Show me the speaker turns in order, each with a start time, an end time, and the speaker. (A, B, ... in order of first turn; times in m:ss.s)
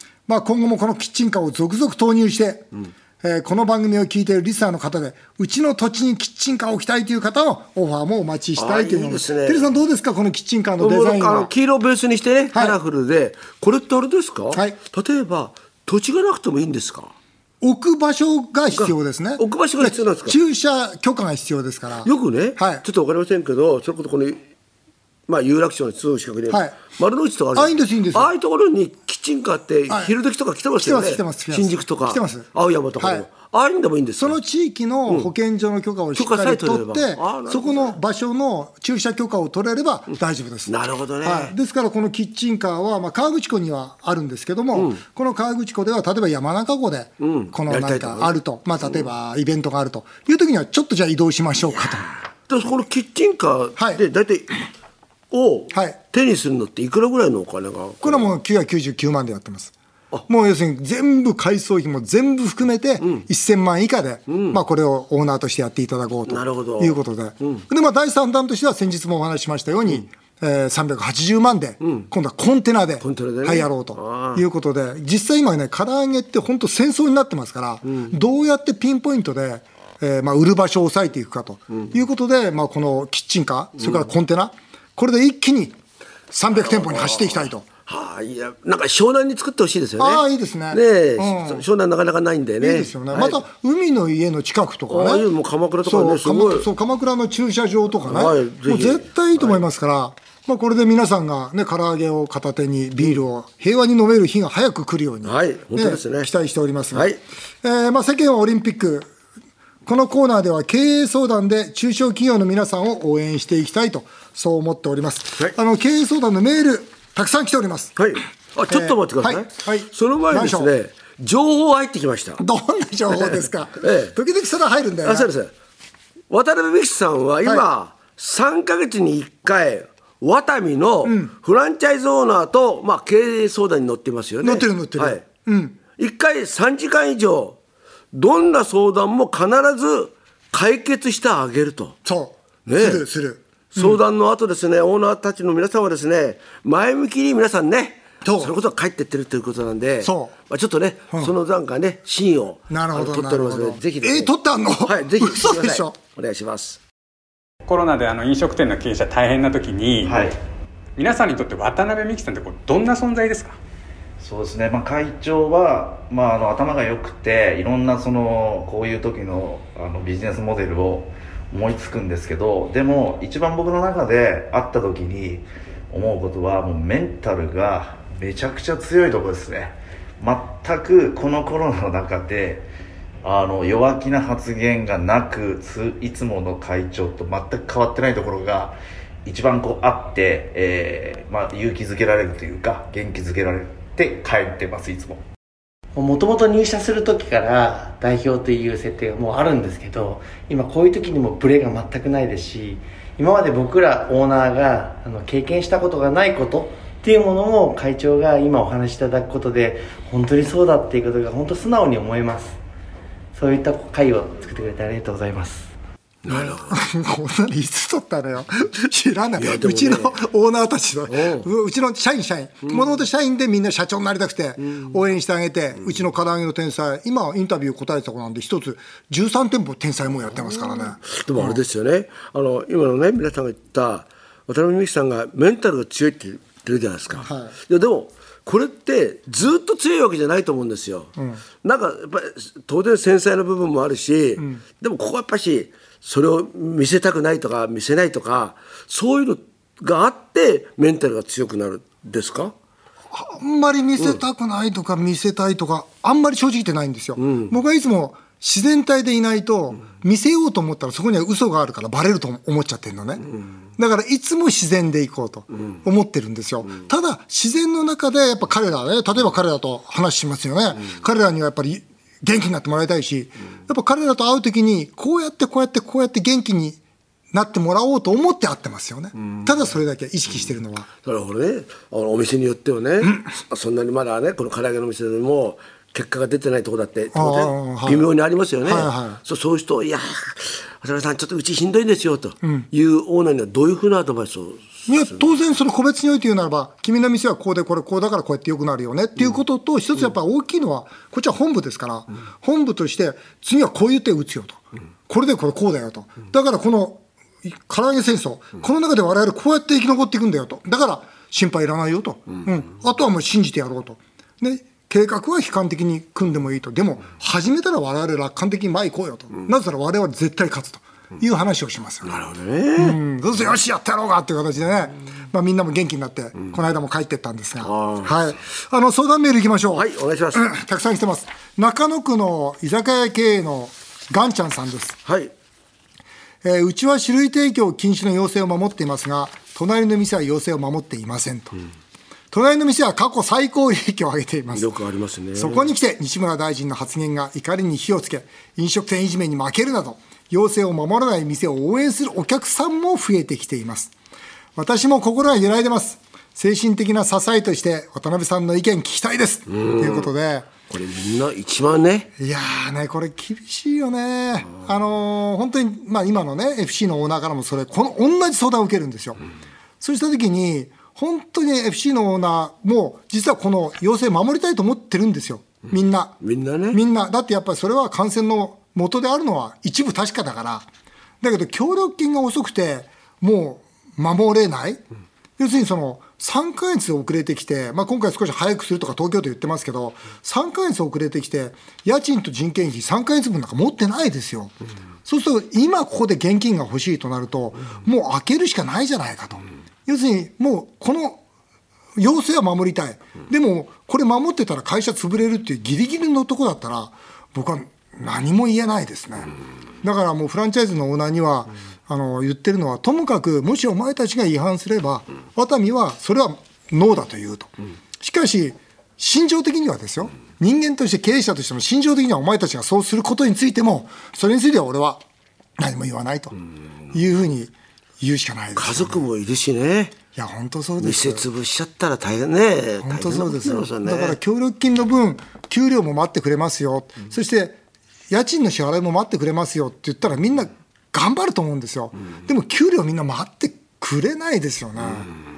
0:00.3-0:02.7 A
0:03.2-0:11.5 A
0:08.6-0:09.7 B
0:10.8-0:17.1 B
0:17.6-0:22.8 A
0:18.7-0:20.4 B
0:22.0-0:24.4 B
0:25.3-0:34.4 B
0:26.5-0:26.8 A
0:27.6-0:28.3 A
0:30.8-0:32.5 A
0:33.0-0:33.3 A
0:34.2-0:52.1 A
0:36.2-0:38.0 B
0:40.7-0:41.5 B
0:47.2-0:48.4 B
0:52.5-0:54.6 B
0:55.3-0:58.3 B
0:55.7-0:56.0 A
0:58.0-0:59.7 A
1:00.3-1:25.8 A
1:04.3-1:04.6 B
1:06.3-1:07.6 B
1:11.8-1:12.1 B
1:13.0-1:14.4 B
1:17.9-1:18.2 B
1:26.3-1:27.7 A
1:26.5-1:33.4 B
1:30.0-1:31.6 A
1:32.6-1:35.3 A
1:34.9-1:36.7 B
1:35.8-1:49.1 A
1:38.0-1:39.6 B
1:45.2-1:46.3 B
1:46.9-1:47.2 B
1:49.9-1:58.0 A
1:58.0-2:02.4 B
1:58.7-2:00.7 A
2:02.4-2:05.3 A
2:03.8-2:04.2 B
2:05.0-2:05.5 B
2:06.3-2:15.2 B
2:11.0-2:11.3 A
2:14.4-2:15.8 A
2:16.0-2:17.6 B
2:18.1-2:22.0 B
2:22.0-2:24.0 A
2:22.7-2:23.0 B
2:23.7-2:34.3 B
2:28.2-2:28.5 A
2:30.0-2:30.4 A
2:32.7-2:36.0 A
2:34.8-2:36.8 B
2:37.7-2:40.3 C
2:40.0-2:40.4 D
2:41.0-2:43.6 C
2:44.2-3:02.7 D
3:03.2-3:15.2 D
3:16.0-3:32.6 E
3:33.3-3:35.7 E
3:36.2-3:36.8 B
3:36.3-3:51.6 A
3:39.4-3:40.2 B
3:41.1-3:41.5 B
3:50.7-4:12.5 B
3:57.2-3:57.5 A
4:13.1-4:23.3 A
4:17.2-4:17.5 B
4:23.8-4:36.8 A
4:37.3-4:40.9 A
4:41.0-4:55.3 B
4:47.1-4:48.1 A
4:48.6-4:49.2 A
4:54.9-5:22.1 A
5:22.0-5:23.0 B
5:22.8-5:35.0 A
5:27.6-5:28.2 B
5:29.7-5:30.5 B
5:35.1-5:35.3 B
5:36.4-5:41.6 A
5:42.3-5:44.7 A
5:44.5-5:45.7 B
5:45.4-5:53.9 A
5:54.6-6:00.5 A
5:59.5-6:00.1 B
6:00.7-6:02.1 B
6:02.2-6:09.2 A
6:09.8-6:16.2 A
6:16.2-6:16.8 B
6:16.7-6:20.7 A
6:21.2-6:24.8 A
6:25.4-6:41.2 A
6:42.0-6:49.3 A
6:49.8-7:05.0 A
7:05.6-7:06.4 A
7:06.9-7:09.0 A
7:08.6-7:10.0 B
7:10.2-7:11.3 A
7:10.8-7:14.2 B
7:12.8-7:17.6 A
7:18.1-7:25.1 A